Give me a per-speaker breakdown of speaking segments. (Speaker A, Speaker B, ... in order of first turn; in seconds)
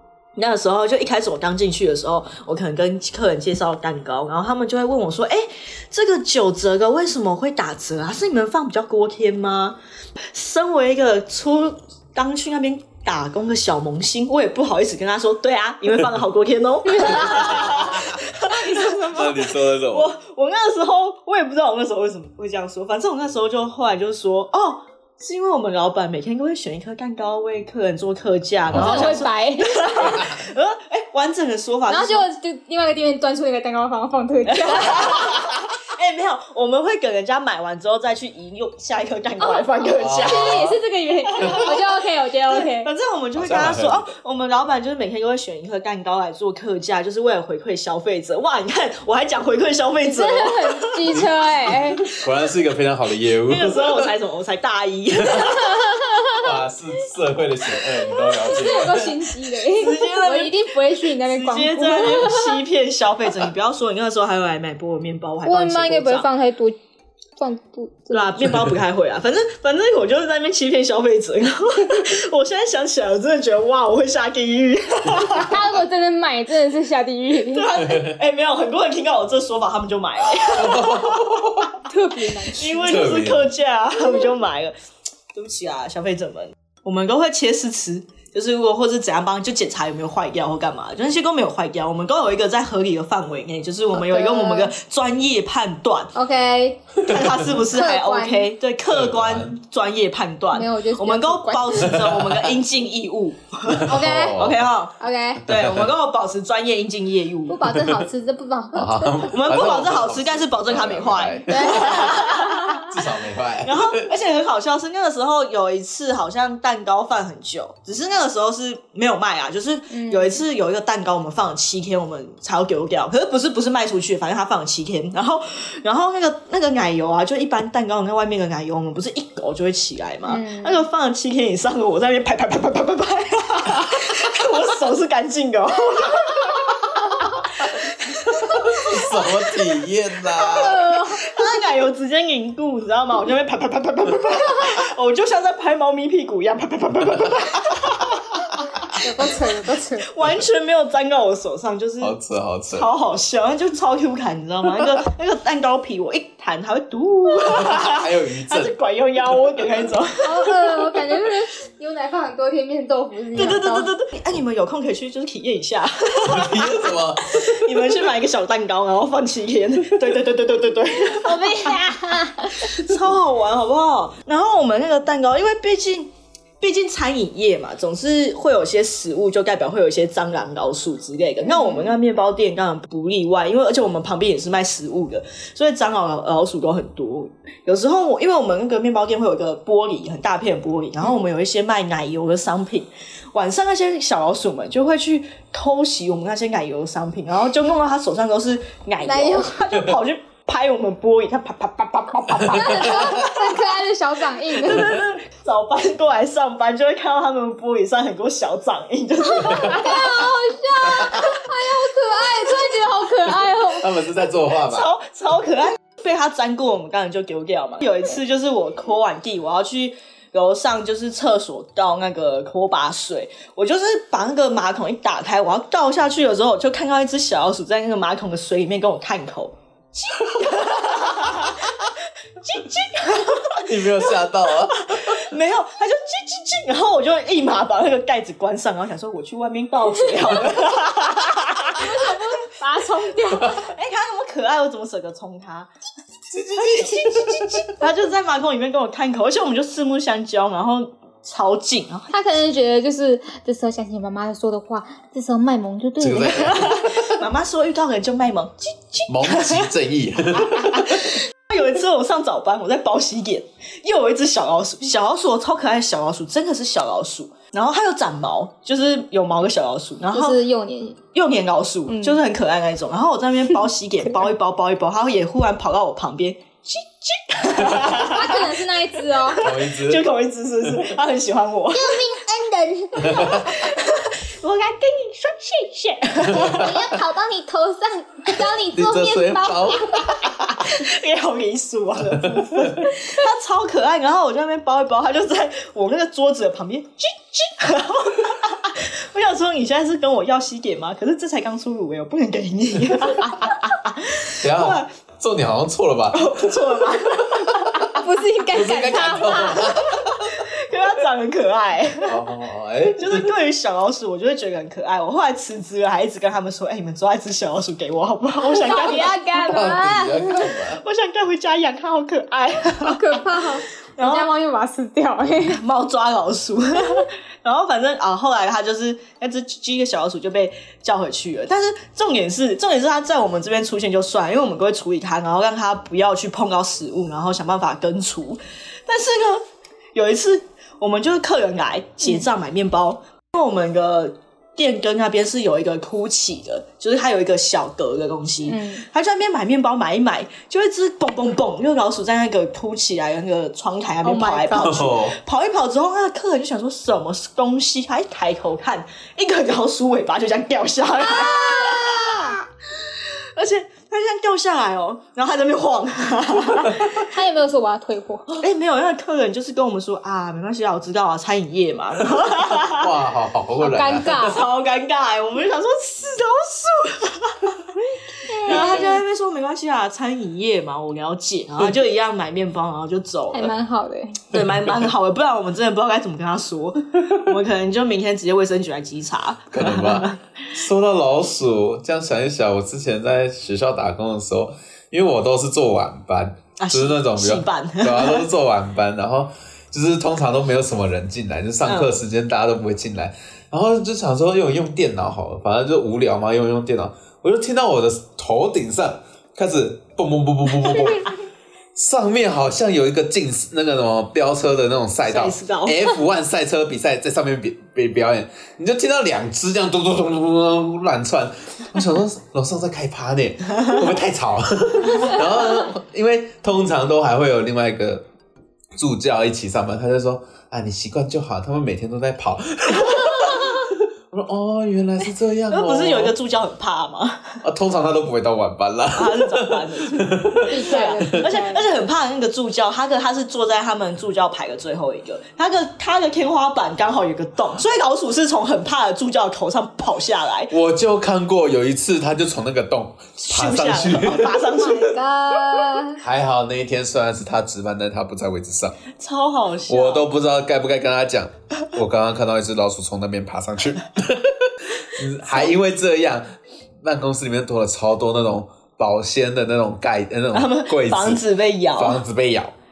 Speaker A: 0.4-9.8, 10.3-32.2, 34.5-40.7, 41.3-41.8, 42.5-51.0, 53.5-55.9, 59.7-66.3, 68.1-75.6, 77.5-81.8, 82.5-84.7, 85.3-96.1, 97.0-107.7, 109.3-112.8, 113.6-139.2, 141.1-149.1, 150.0-152.1, 152.7-160.7, 163.3-171.8, 172.5-203.6, 204.5-210.3, 214.6-242.2, 243.4-245.7, 246.5-252.2, 256.4-259.7, 260.3-270.4, 271.1-278.5, 279.2-282.1, 283.0-286.7, 290.5-304.9, 306.1-308.0, 310.2-312.2, 313.0-319.2, 320.8-323.4, 324.0-324.3, 325.5-367.1, 368.3-372.9, 374.1-383.5, 384.3-390.2, 396.6-398.3, 401.7-402.0, 415.1-415.8, 435.5-437.4, 438.9-450.5, 453.2-455.0, 458.9-460.1, 470.3-472.0
Speaker B: 17.0-17.9, 28.7-30.1, 31.9-35.4, 39.4-42.9, 50.0-52.1, 55.8-56.5, 58.1-62.6, 65.5-66.8, 67.4-68.7, 75.4-77.7, 81.9-83.1, 93.9-94.7, 96.2-98.5, 100.5-102.0, 103.8-105.5, 107.5-109.3, 111.5-112.9, 119.9-120.4, 130.3-130.9, 140.3-141.3, 148.9-150.1, 160.2-163.9, 171.1-172.8, 181.4-181.9, 199.1-199.7, 202.4-205.0, 209.4-214.0, 241.7-243.7, 252.1-256.7, 270.1-271.0, 271.9-272.2, 277.7-279.5, 281.7-283.6, 286.4-290.2, 307.9-309.8, 318.4-320.6, 322.6-325.6, 348.5-348.9, 354.0-354.9, 361.0-362.4, 367.0-368.4, 373.6-374.4, 378.3-379.0, 383.3-384.2, 440.5-441.7, 454.6-456.0
Speaker C: 17.8-20.1, 28.7-29.2, 40.0-40.7, 43.4-44.1, 51.1-54.1, 56.4-59.3, 80.4-81.7, 82.8-83.5, 98.9-99.5, 101.9-102.5, 103.7-104.7, 105.5-105.9, 107.7-108.0, 108.7-114.1, 138.7-140.9, 152.0-152.9, 157.4-158.7, 166.3-167.9, 202.4-203.1, 210.9-211.2, 213.7-214.9, 233.6-235.2, 246.3-247.7, 256.0-257.1, 259.1-261.2, 279.4-280.1, 283.0-283.5, 286.3-286.7, 288.7-290.4, 292.1-292.9, 304.4-306.7, 308.5-310.4, 312.1-313.3, 319.4-320.8, 354.6-355.2, 372.6-374.3, 389.5-411.1, 411.8-428.1, 428.7-436.1, 437.4-441.1, 450.5-454.5, 455.5-458.8, 459.7-466.3, 466.8-471.2, 471.8-472.5